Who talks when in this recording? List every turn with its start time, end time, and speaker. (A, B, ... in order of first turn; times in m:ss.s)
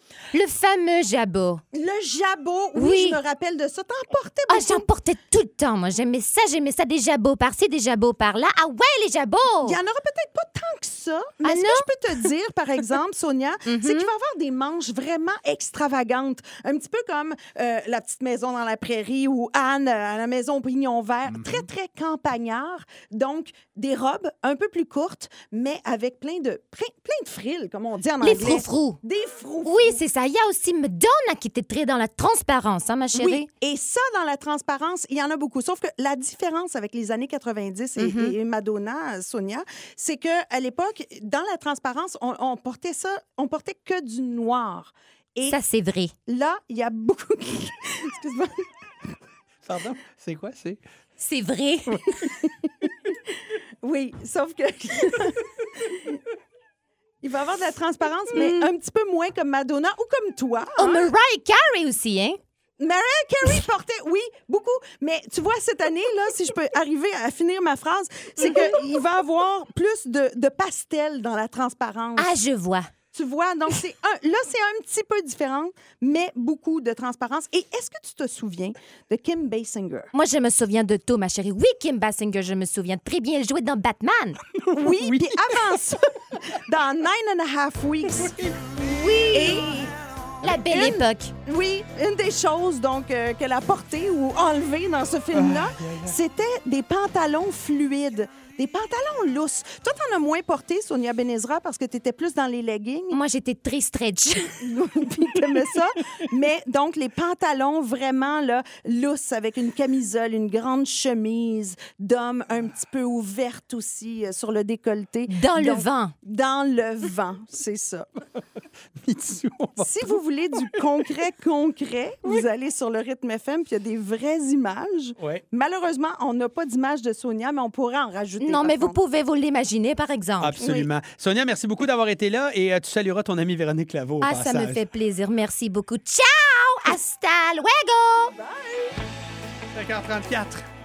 0:00.3-0:01.6 A
0:01.7-0:04.9 B
0:02.8-0:03.2 A
0:04.5-0:09.8 A
0:09.6-0:30.0 B
0:11.4-0:12.3 A
0:13.7-0:14.1 A
0:21.3-0:21.6 C
0:28.2-0:29.0 A
0:29.6-0:33.5 A
0:33.1-0:45.6 B
0:38.0-0:38.4 A
0:45.5-0:46.1 A
0:46.3-0:48.6 B
0:49.6-0:50.8 C
0:51.2-0:52.1 A
0:53.8-0:56.2 B
0:57.2-1:01.0 B
0:58.3-0:58.7 A
1:00.8-1:02.4 A
1:02.8-1:12.4 B
1:12.2-1:12.8 A
1:13.1-1:20.1 B
1:20.1-1:24.4 A
1:24.6-1:25.7 C
1:24.7-1:28.5 B
1:28.8-1:29.7 A
1:29.3-1:43.2 B
1:30.4-1:31.3 A
1:35.3-1:36.1 C
1:43.1-1:44.6 A
1:44.6-1:58.1 B
1:55.3-1:56.1 A
1:59.0-2:00.2 C
1:59.8-2:09.0 B
2:08.4-2:10.6 A
2:10.4-2:14.8 C
2:10.6-2:10.9 B
2:14.2-2:18.3 A
2:18.3-2:19.0 B
2:19.7-2:20.6 C